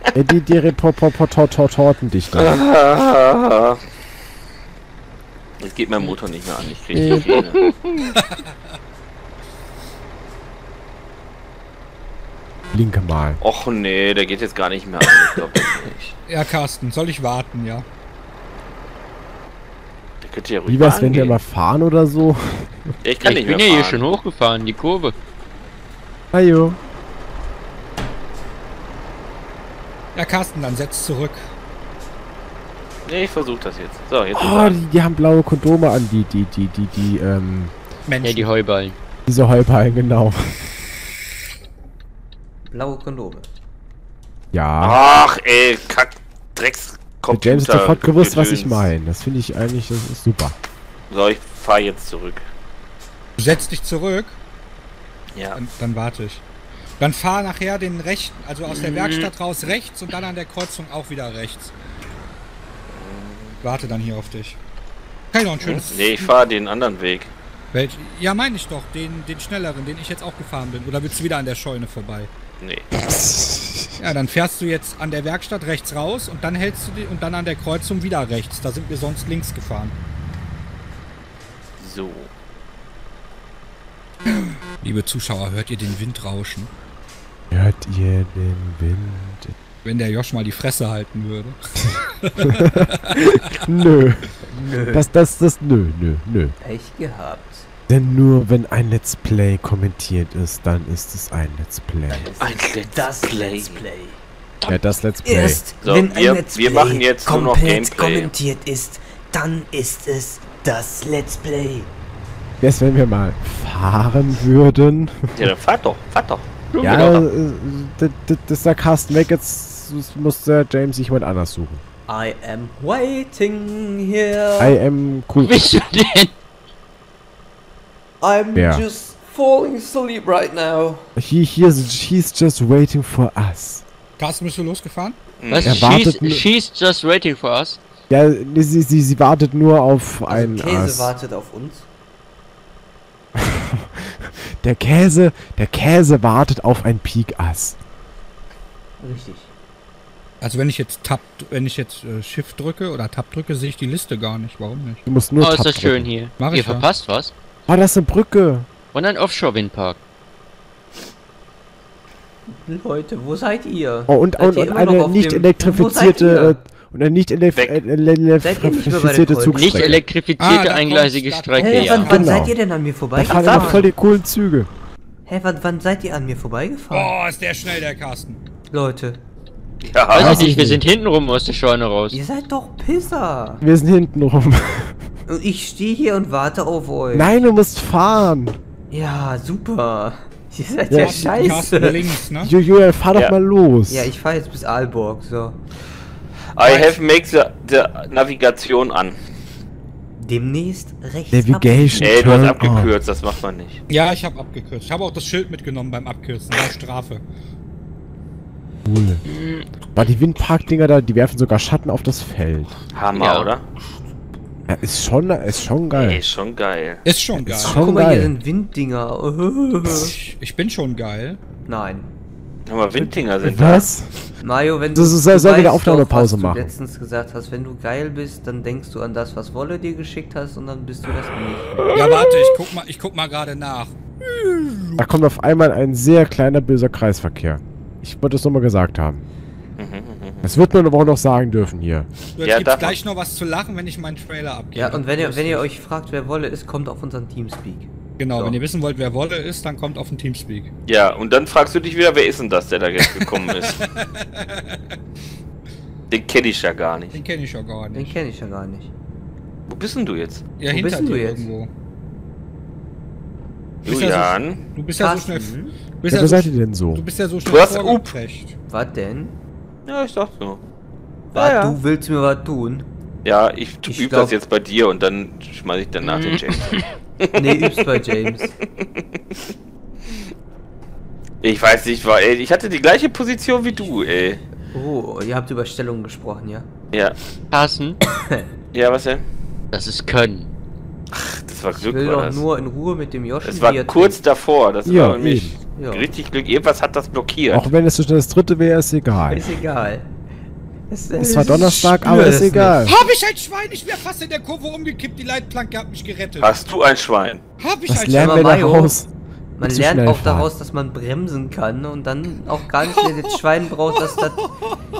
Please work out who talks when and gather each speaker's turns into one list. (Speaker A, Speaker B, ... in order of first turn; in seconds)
Speaker A: 0.1-2.6, 6.9-7.3, 12.7-13.4, 20.7-22.9, 26.3-26.8, 34.3-37.7, 39.2-40.6, 44.5-45.0, 47.3-50.5, 73.0-74.0, 87.5-89.5, 92.5-96.5, 97.9-102.3, 104.6-105.6, 112.6-115.5, 116.8-121.8, 124.6-125.6, 128.6-128.8, 131.2-133.8, 135.6-136.4, 138.1-141.1, 143.3-147.8, 155.1-156.1, 157.7-158.7, 164.1-170.0, 172.1-172.5, 173.1-174.7, 180.2-180.8, 183.6-185.0, 187.1-188.6, 190.9-191.7, 192.4-194.1, 201.3-202.9, 208.8-209.2, 209.9-212.7, 214.7-216.2, 217.3-218.3, 223.4-224.1, 224.9-226.7, 235.0-239.2, 240.4-242.1, 266.1-267.0, 294.8-295.6, 297.5-299.5, 301.2-302.9, 307.9-309.1, 309.6-310.5
Speaker B: 2.3-3.8, 5.6-7.6, 13.4-16.1, 20.2-21.4, 23.0-24.1, 33.0-34.8, 44.8-48.9, 51.1-52.4, 55.3-55.6, 62.9-63.6, 65.6-67.3, 72.6-72.9, 81.8-82.3, 102.3-103.8, 105.8-108.3, 115.3-116.5, 135.4-135.9, 167.5-167.8, 173.3-173.9, 179.8-180.4, 196.5-199.2, 202.0-203.8, 212.9-213.7, 215.9-217.0, 222.7-223.9, 239.8-240.5, 242.4-243.0, 250.8-253.8, 256.1-257.2, 259.7-260.4, 263.9-264.6, 267.5-268.1, 269.9-270.6, 271.3-271.8, 273.2-277.9, 281.4-284.4, 288.7-289.2, 291.1-292.4, 293.4-297.7, 306.4-307.4
Speaker C: 7.2-7.7, 23.2-25.1, 38.2-39.0, 58.8-59.3, 116.7-117.3, 125.3-126.3, 135.5-137.8, 155.4-157.3, 158.9-160.0, 169.5-172.1, 180.1-182.2, 209.3-209.6, 213.1-213.5, 276.0-276.9, 287.5-288.0, 289.7-290.5
Speaker D: 8.2-8.4, 16.3-17.9, 30.1-31.5, 38.1-38.5, 53.4-54.4, 55.5-56.4, 57.0-61.7, 63.6-64.6, 65.3-66.3, 67.7-72.3, 74.0-79.9, 84.3-86.7, 89.8-93.5, 134.2-135.2, 150.4-155.0, 156.4-156.9, 170.4-172.2, 176.9-178.4, 190.9-192.5, 196.6-197.0, 203.9-207.2, 217.0-217.8, 219.9-221.4, 231.9-235.0, 242.3-245.6, 248.2-250.7, 253.1-254.8, 257.1-258.1, 260.6-261.7, 263.8-268.5, 302.8-306.6, 307.6-308.5, 314.4-314.7
Speaker E: 42.7-43.5, 94.5-95.1, 96.6-97.7, 102.1-104.2, 105.2-111.9, 122.1-124.8, 128.2-131.1, 140.3-141.9, 149.0-149.5, 162.5-166.6, 168.4-169.9, 171.6-173.9, 175.2-177.1, 178.7-179.2, 182.1-183.6, 185.3-187.4, 188.9-192.1, 193.9-195.6, 200.2-202.2, 217.6-220.1, 221.7-222.1, 224.4-231.9, 244.7-248.6, 257.9-258.9, 260.7-261.5, 265.0-265.7, 268.7-269.3, 271.3-272.9, 273.8-274.4, 277.3-278.5, 284.7-286.7, 291.7-294.2, 295.8-296.1, 299.3-300.1, 300.9-302.9, 308.1-309.0, 309.6-314.5